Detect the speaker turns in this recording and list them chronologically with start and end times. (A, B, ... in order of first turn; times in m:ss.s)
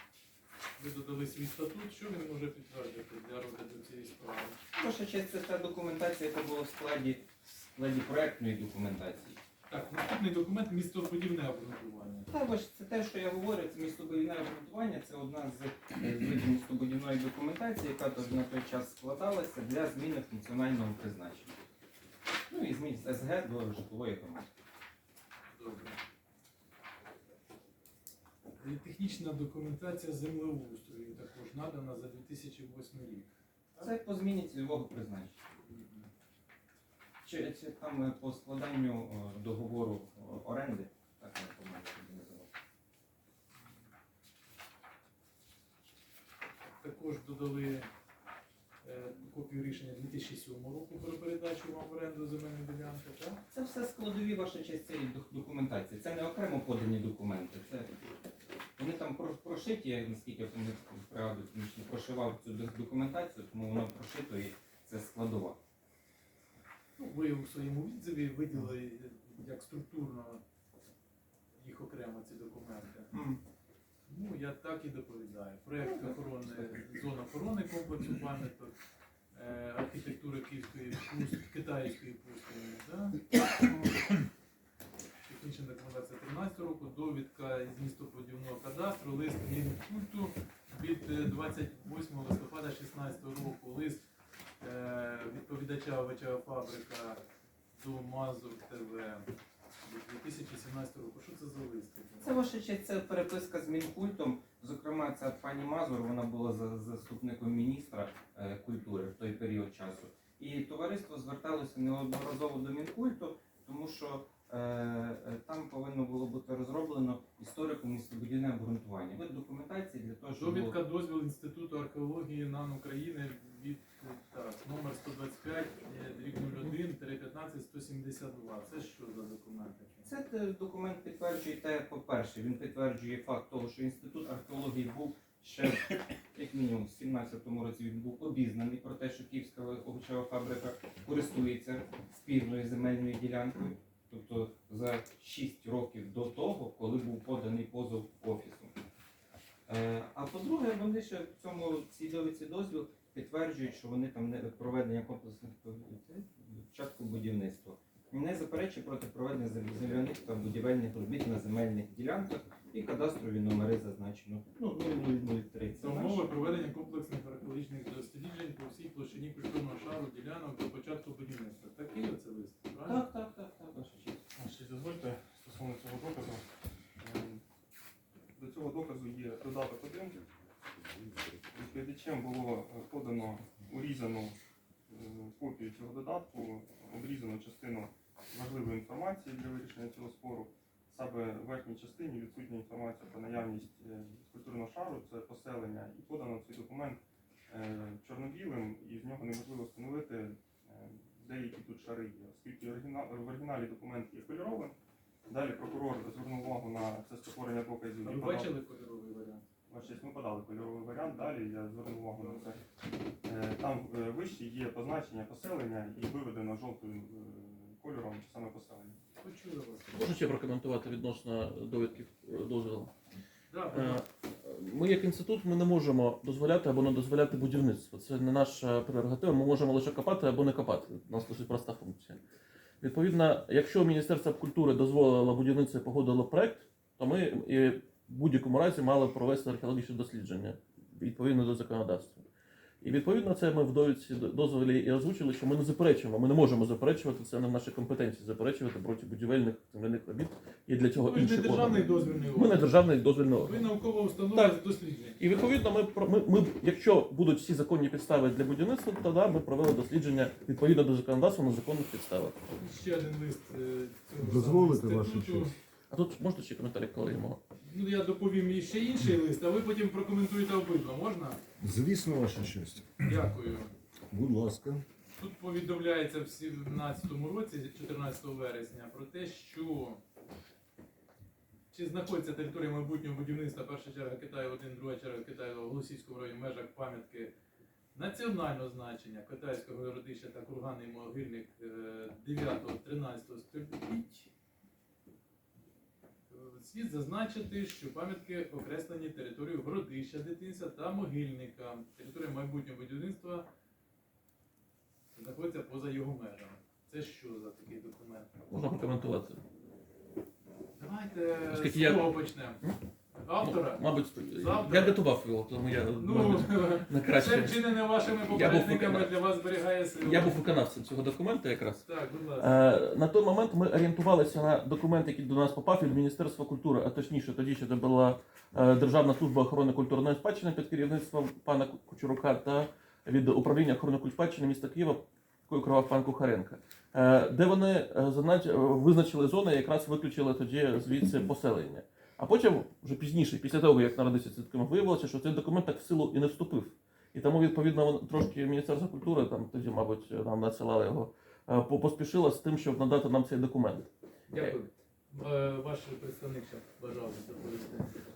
0:00.8-0:04.6 A
0:04.7-0:09.4 B
0:09.7-0:12.3 A
0:12.3-0:21.6 B
0:22.5-0:24.5 B
0:25.5-0:26.0 A
0:28.6-0:33.9 A
0:33.8-0:35.4 B
0:35.6-0:36.1 A
0:37.2-0:42.5 B
0:46.8-0:47.9 A
0:48.8-0:53.4 A
0:53.5-0:57.9 B
0:58.8-1:05.6 B
1:07.0-1:10.4 A
1:11.6-1:13.1 A
1:13.1-1:13.4 B
1:14.1-1:18.7 A
1:15.9-1:16.7 B
1:19.3-1:23.2 A
1:25.2-1:34.0 A
1:34.6-1:37.2 A
1:37.8-1:39.3 A
1:39.8-1:42.3 A
1:42.2-2:00.8 B
2:00.3-2:10.0 A
2:10.0-2:28.7 B
2:29.7-2:46.3 B
2:45.8-2:53.0 A
2:52.8-2:54.2 B
2:54.4-2:56.4 C
2:57.0-2:57.4 C
2:58.4-3:00.2 C
3:01.5-3:04.4 C
3:04.9-3:28.5 C
3:28.0-3:29.4 A
3:29.7-3:32.6 C
3:32.2-3:32.5 A
3:33.2-3:39.0 C
3:39.2-3:39.9 A
3:39.9-3:42.9 D
3:43.5-3:44.0 A
3:43.7-3:52.2 D
3:52.8-4:02.2 D
4:02.8-4:13.7 D
4:11.0-4:15.2 A
4:14.3-4:14.6 D
4:15.2-4:22.4 D
4:22.4-4:25.6 A
4:24.2-4:25.5 E
4:25.9-4:27.4 D
4:27.6-4:31.4 A
4:31.6-4:33.3 E
4:33.0-4:33.7 A
4:34.1-4:34.8 E
4:35.2-4:40.0 A
4:41.7-4:47.3 A
4:47.9-4:54.3 A
4:56.3-5:03.5 A
5:05.1-5:08.3 A
5:08.5-5:09.4 D
5:10.8-5:12.6 A
5:11.5-5:12.8 D
5:13.1-5:15.0 A
5:13.4-5:19.1 D
5:16.0-5:20.4 A
5:20.0-5:21.8 D
5:21.8-5:22.5 A
5:22.4-5:54.6 D
5:54.3-5:58.0 A